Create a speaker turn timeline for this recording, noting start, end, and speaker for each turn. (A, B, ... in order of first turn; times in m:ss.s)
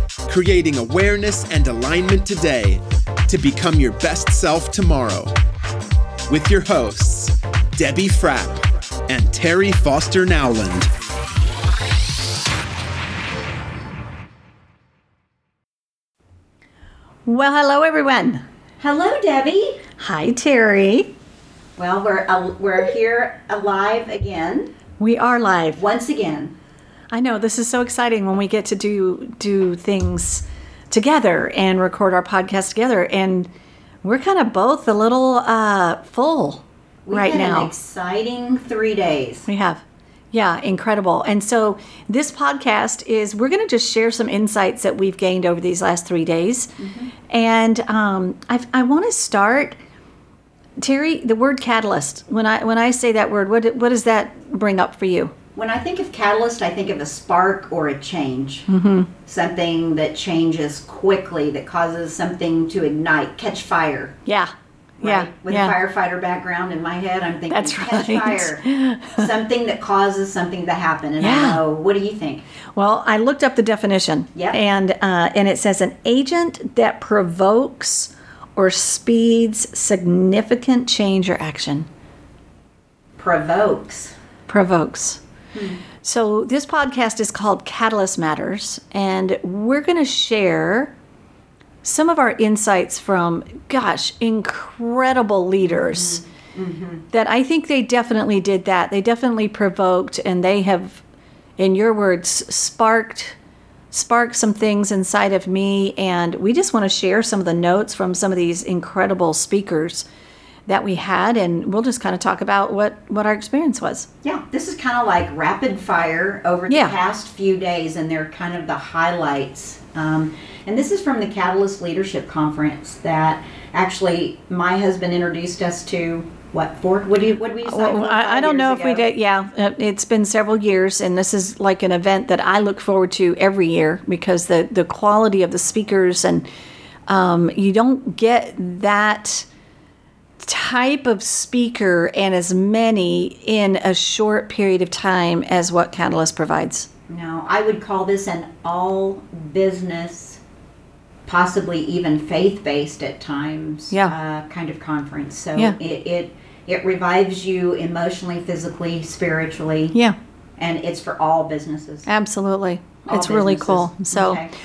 0:00.3-0:05.3 A
0:06.3-0:10.9 A
0:17.2-0:18.4 B
0:18.8-0:19.8 C
0:20.0-0:21.1 B
0:21.8-0:24.7 C
0:25.0-0:25.8 B
0:25.8-0:26.5 C
0:27.1-0:33.5 B
0:34.0-0:37.7 B
0:37.0-0:39.5 C
0:39.5-0:46.7 B
0:46.8-0:47.1 C
0:47.3-0:49.8 B
0:50.8-0:55.3 B
0:55.5-0:58.7 C
0:58.7-0:59.1 B
0:59.2-1:04.2 C
1:04.2-1:05.7 B
1:05.0-1:12.4 C
1:07.5-1:09.3 B
1:11.2-1:11.6 B
1:12.8-1:21.9 B
1:14.3-1:14.6 C
1:23.2-1:24.1 C
1:24.5-1:25.2 B
1:25.5-1:25.8 C
1:26.0-1:30.9 B
1:31.8-1:36.2 B
1:35.6-1:37.0 C
1:37.1-1:41.0 B
1:41.6-1:43.4 B
1:43.9-1:50.0 B
1:50.7-1:54.1 B
1:54.2-2:09.1 C
1:56.7-1:56.9 B
2:07.6-2:16.5 B
2:17.1-2:19.5 B
2:20.4-2:26.9 B
2:27.1-2:30.4 C
2:31.3-2:40.0 C
2:40.6-2:42.1 C
2:42.0-2:44.4 B
2:43.0-2:44.5 C